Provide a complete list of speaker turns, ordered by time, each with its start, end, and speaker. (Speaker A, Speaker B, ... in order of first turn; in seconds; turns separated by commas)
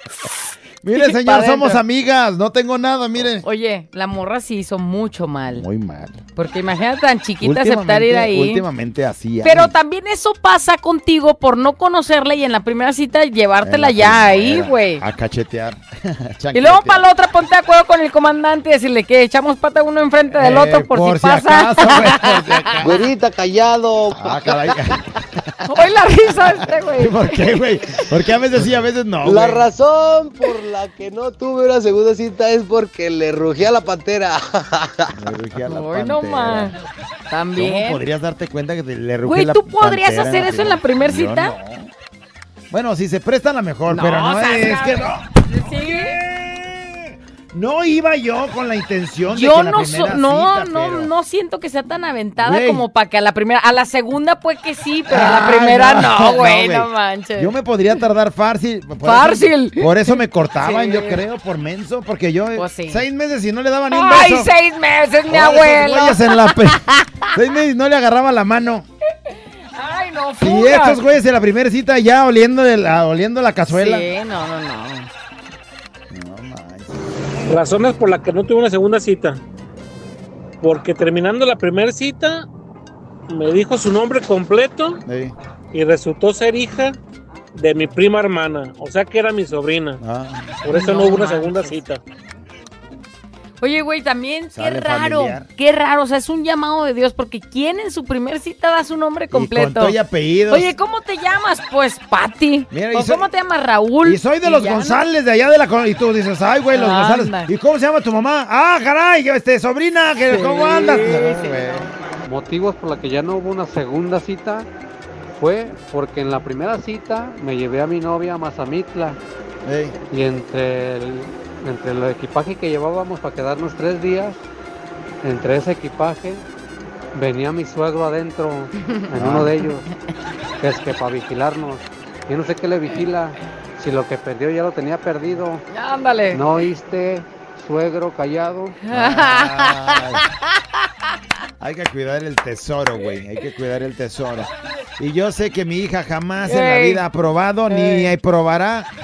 Speaker A: 0.8-3.5, Speaker B: 0.9-1.8, Speaker B: 3.4-5.7, Speaker A: 5.5-6.2, Speaker B: 6.4-8.6, Speaker A: 7.4-9.7, Speaker B: 9.4-15.0, Speaker A: 13.6-17.1, Speaker B: 16.5-22.7, Speaker A: 20.3-23.1, Speaker A: 24.1-25.8, Speaker B: 25.7-27.3, Speaker A: 26.9-29.7, Speaker C: 29.2-34.4, Speaker A: 35.2-36.7, Speaker B: 35.7-36.8, Speaker B: 37.3-38.0, Speaker A: 37.6-41.9, Speaker B: 39.2-41.5, Speaker A: 42.7-51.1, Speaker B: 43.9-46.2, Speaker B: 49.3-57.5, Speaker A: 52.4-52.9, Speaker A: 55.1-64.5, Speaker B: 59.0-61.2, Speaker B: 62.6-63.1, Speaker B: 63.9-67.2, Speaker A: 65.3-66.8, Speaker A: 67.3-68.9, Speaker B: 69.8-71.0, Speaker A: 70.4-74.1, Speaker B: 73.7-75.1, Speaker A: 76.1-77.1, Speaker D: 77.5-79.4, Speaker D: 80.6-82.5, Speaker D: 83.3-85.0, Speaker A: 85.1-85.3, Speaker D: 85.7-87.0, Speaker D: 87.5-90.0, Speaker A: 90.0-90.5, Speaker D: 90.6-92.0, Speaker B: 90.7-91.7, Speaker B: 93.6-100.0, Speaker A: 94.5-95.5, Speaker A: 99.3-100.7, Speaker B: 100.5-105.0, Speaker A: 102.7-103.3, Speaker A: 104.0-111.9, Speaker B: 106.7-107.5, Speaker B: 110.3-111.9, Speaker E: 112.2-114.7, Speaker E: 115.4-119.2, Speaker A: 119.7-120.0, Speaker E: 120.1-124.4, Speaker E: 125.2-126.4, Speaker E: 127.2-129.8, Speaker A: 129.1-129.5, Speaker E: 130.6-135.6, Speaker B: 135.7-136.5, Speaker E: 136.3-138.8, Speaker B: 138.8-140.0, Speaker A: 138.9-140.2, Speaker A: 141.6-148.9, Speaker B: 146.4-147.0, Speaker B: 147.7-148.1